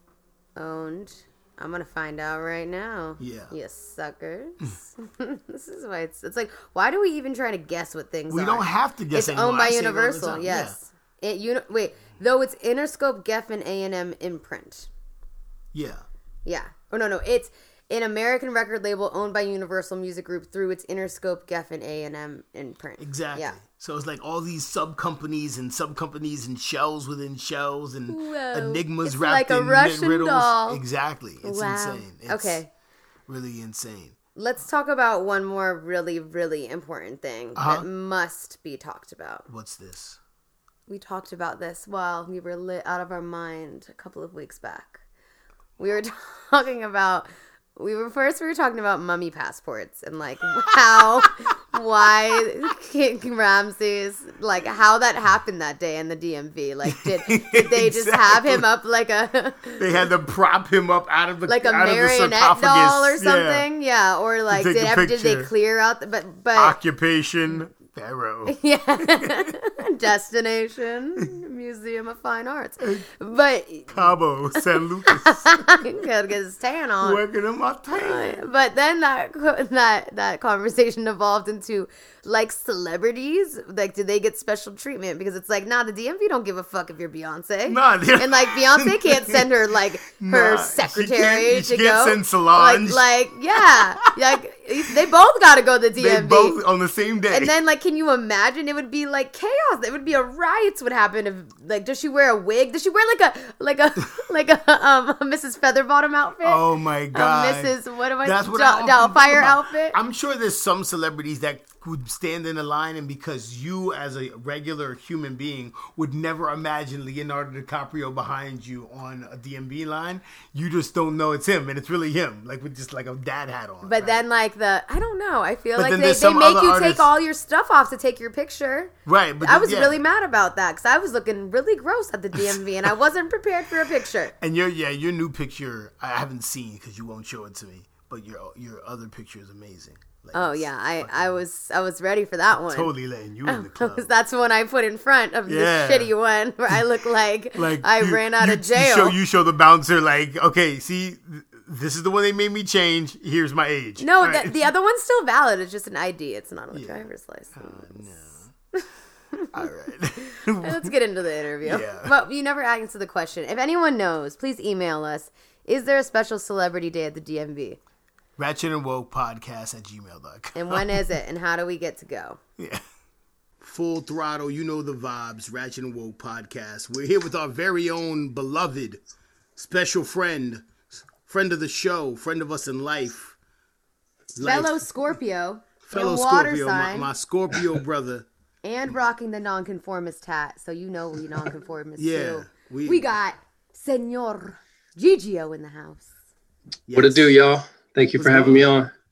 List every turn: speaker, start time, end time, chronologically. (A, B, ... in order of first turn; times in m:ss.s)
0:00.6-0:14.9 A
0:03.2-0:03.5 B
0:08.3-0:10.8 B
0:15.7-0:16.0 B
0:16.4-0:23.6 A
0:23.0-0:32.6 B
0:28.1-0:30.8 A
0:31.4-0:32.7 A
0:33.3-0:34.2 B
0:34.4-0:39.4 A
0:37.5-0:37.8 B
0:39.5-0:40.2 B
0:40.9-0:45.0 A
0:45.8-1:00.0 A
0:56.9-0:58.6 B
0:59.8-1:03.6 B
1:01.5-1:06.8 A
1:04.5-1:05.5 B
1:06.5-1:09.5 B
1:08.5-1:14.6 A
1:13.9-1:15.8 B
1:15.2-1:17.2 A
1:17.0-1:18.4 B
1:17.9-1:36.6 A
1:27.7-1:29.4 B
1:30.1-1:33.0 B
1:33.6-1:34.1 B
1:36.0-1:37.5 B
1:37.3-1:46.6 A
1:46.4-2:04.2 B
1:47.1-1:50.0 A
2:03.8-2:14.3 A
2:05.8-2:07.1 B
2:09.0-2:10.0 B
2:14.4-2:21.4 B
2:20.3-2:22.9 A
2:22.7-2:24.1 B
2:23.4-2:29.2 A
2:25.4-2:26.1 B
2:27.5-2:34.7 B
2:34.0-2:37.9 A
2:36.7-2:38.5 B
2:39.5-2:40.9 B
2:40.3-2:47.8 A
2:41.6-2:42.1 B
2:48.4-2:51.0 B
2:50.5-2:52.4 A
2:52.6-2:52.8 B
2:53.6-2:59.0 B
2:59.6-3:03.4 B
3:04.3-3:04.8 B
3:04.4-3:07.1 A
3:05.8-3:08.2 B
3:08.6-3:16.1 A
3:12.0-3:13.1 B
3:16.9-3:17.3 B
3:16.9-3:18.9 C
3:18.1-3:18.8 B